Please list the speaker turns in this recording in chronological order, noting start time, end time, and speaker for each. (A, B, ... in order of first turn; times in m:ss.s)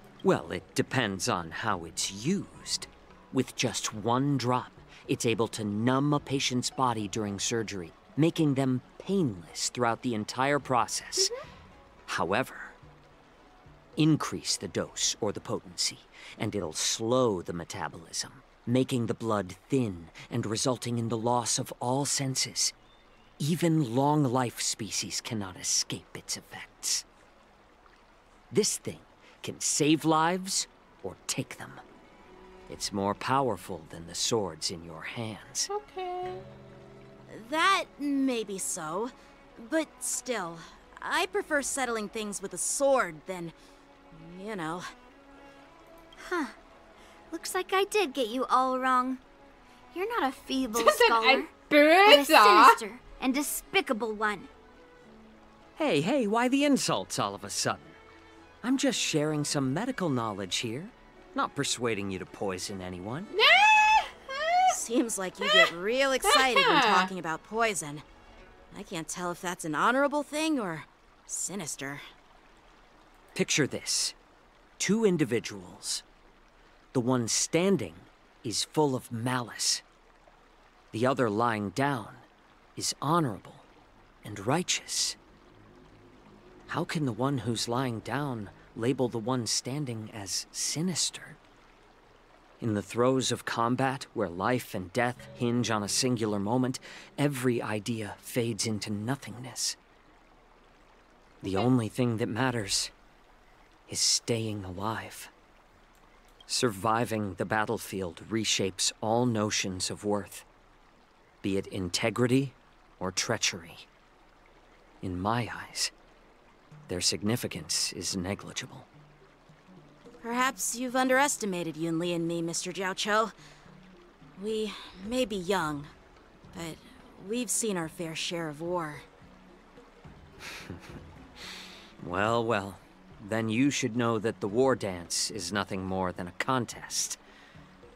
0:00.2-0:11.3 A
0:12.1-0:12.8 A
0:14.0-0:22.8 A
0:23.4-0:27.1 A
0:28.5-0:31.8 A
0:32.7-0:35.7 A
0:35.7-0:36.4 B
0:37.3-0:43.6 C
0:44.1-0:44.9 C
0:46.2-0:46.6 D
0:47.3-0:49.2 D
0:49.9-0:54.5 D
0:50.8-0:52.8 B
0:55.8-0:58.0 A
0:58.6-1:03.3 A
1:03.3-1:04.8 B
1:04.7-1:08.0 C
1:05.4-1:05.7 B
1:06.2-1:07.1 B
1:08.7-1:12.0 C
1:13.3-1:14.1 A
1:14.8-1:16.0 A
1:16.9-1:19.8 A
1:20.9-1:22.2 A
1:22.8-1:23.6 A
1:24.2-1:25.2 A
1:26.7-1:31.4 A
1:32.6-1:39.8 A
1:41.4-1:42.9 A
1:43.9-1:45.3 A
1:46.5-1:50.4 A
1:51.4-1:53.9 A
1:55.0-1:55.9 A
1:56.9-1:58.9 A
2:00.2-2:03.3 C
2:04.4-2:05.9 C
2:06.5-2:09.1 C
2:10.5-2:10.8 A
2:12.0-2:17.2 A